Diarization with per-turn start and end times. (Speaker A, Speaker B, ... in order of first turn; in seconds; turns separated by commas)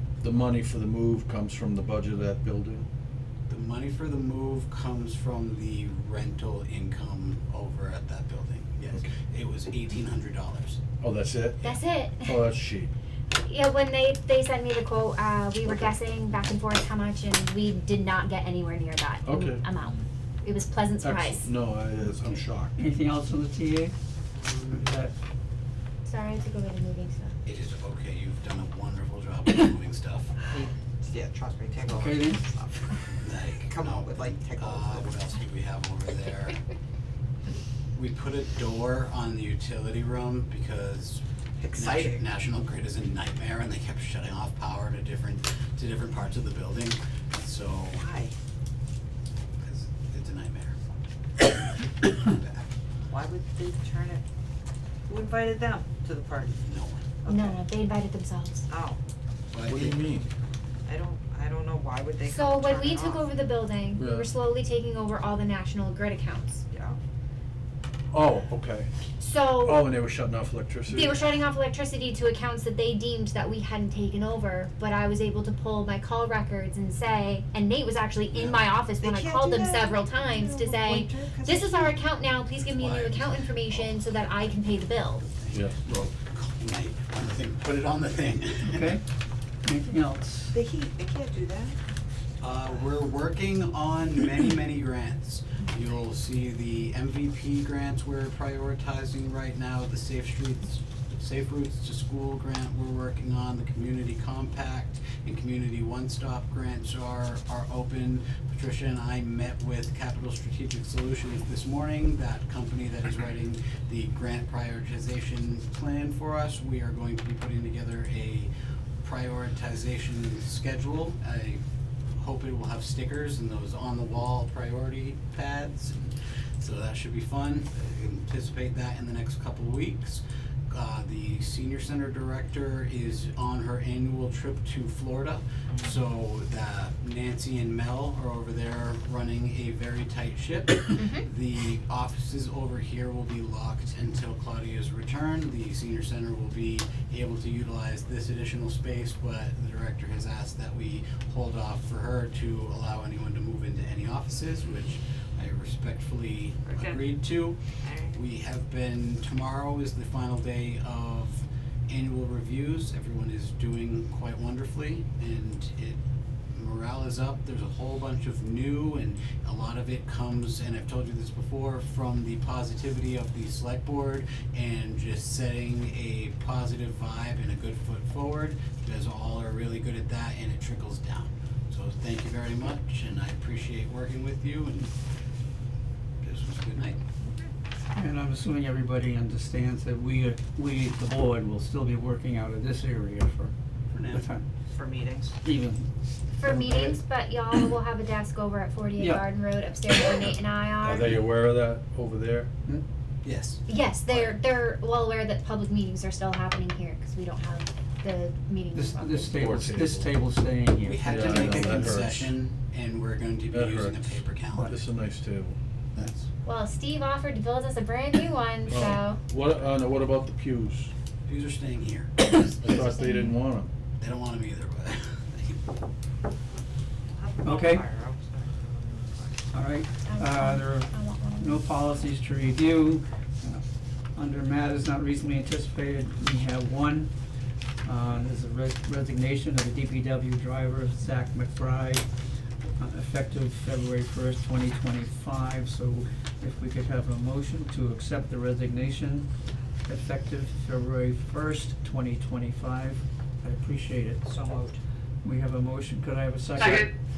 Speaker A: 0.2-2.9, Speaker B: 3.5-10.8, Speaker A: 11.0-12.9, Speaker C: 11.6-12.4, Speaker C: 13.4-21.5, Speaker A: 19.2-19.6, Speaker A: 21.0-22.8, Speaker D: 22.8-23.9, Speaker E: 24.4-24.7, Speaker D: 24.7-25.1, Speaker C: 26.1-27.3, Speaker B: 27.5-30.4, Speaker E: 30.5-35.2, Speaker D: 31.9-32.4, Speaker B: 33.2-36.6, Speaker B: 38.0-48.0, Speaker E: 41.6-42.2, Speaker E: 47.9-48.3, Speaker B: 49.6-50.8, Speaker B: 52.0-52.7, Speaker E: 53.1-54.2, Speaker E: 55.1-56.6, Speaker B: 56.6-57.0, Speaker E: 57.2-57.6, Speaker C: 57.3-58.7, Speaker E: 58.7-59.0, Speaker B: 59.5-60.0, Speaker A: 59.7-60.3, Speaker E: 60.9-63.3, Speaker C: 62.2-66.6, Speaker A: 64.0-64.3, Speaker E: 66.7-67.0, Speaker A: 68.1-68.9, Speaker C: 69.2-69.9, Speaker A: 69.6-71.3, Speaker C: 70.9-85.2, Speaker B: 78.3-78.6, Speaker E: 79.0-82.0, Speaker B: 82.7-84.6, Speaker B: 85.2-88.9, Speaker A: 85.5-86.0, Speaker D: 88.6-89.0, Speaker D: 89.7-90.6, Speaker E: 90.5-91.8, Speaker B: 92.4-118.5, Speaker B: 119.0-121.6, Speaker B: 122.2-166.0, Speaker E: 135.7-136.0, Speaker C: 141.0-141.2, Speaker E: 156.7-157.0, Speaker E: 157.8-158.2, Speaker B: 166.5-184.9, Speaker B: 186.2-187.0, Speaker D: 188.0-194.5, Speaker B: 193.9-194.3, Speaker E: 194.7-195.3, Speaker D: 195.4-195.9, Speaker D: 196.4-197.0, Speaker C: 196.4-201.2, Speaker D: 199.0-199.2, Speaker A: 200.8-202.5, Speaker B: 203.2-204.4, Speaker C: 203.7-209.4, Speaker D: 208.7-211.9, Speaker A: 209.4-210.1, Speaker B: 210.8-214.7, Speaker A: 211.0-212.3, Speaker A: 213.5-215.6, Speaker B: 215.9-216.3, Speaker C: 216.4-219.2, Speaker A: 218.7-220.9, Speaker B: 221.3-222.1, Speaker C: 222.2-223.3, Speaker A: 222.6-223.7, Speaker B: 224.0-225.6, Speaker E: 227.1-229.5, Speaker D: 227.4-227.8, Speaker D: 229.5-233.6, Speaker C: 230.1-231.6, Speaker D: 234.2-237.1, Speaker D: 237.8-242.1, Speaker D: 242.8-249.3, Speaker D: 249.8-254.2, Speaker E: 254.2-254.8, Speaker D: 255.2-256.9, Speaker A: 256.6-256.9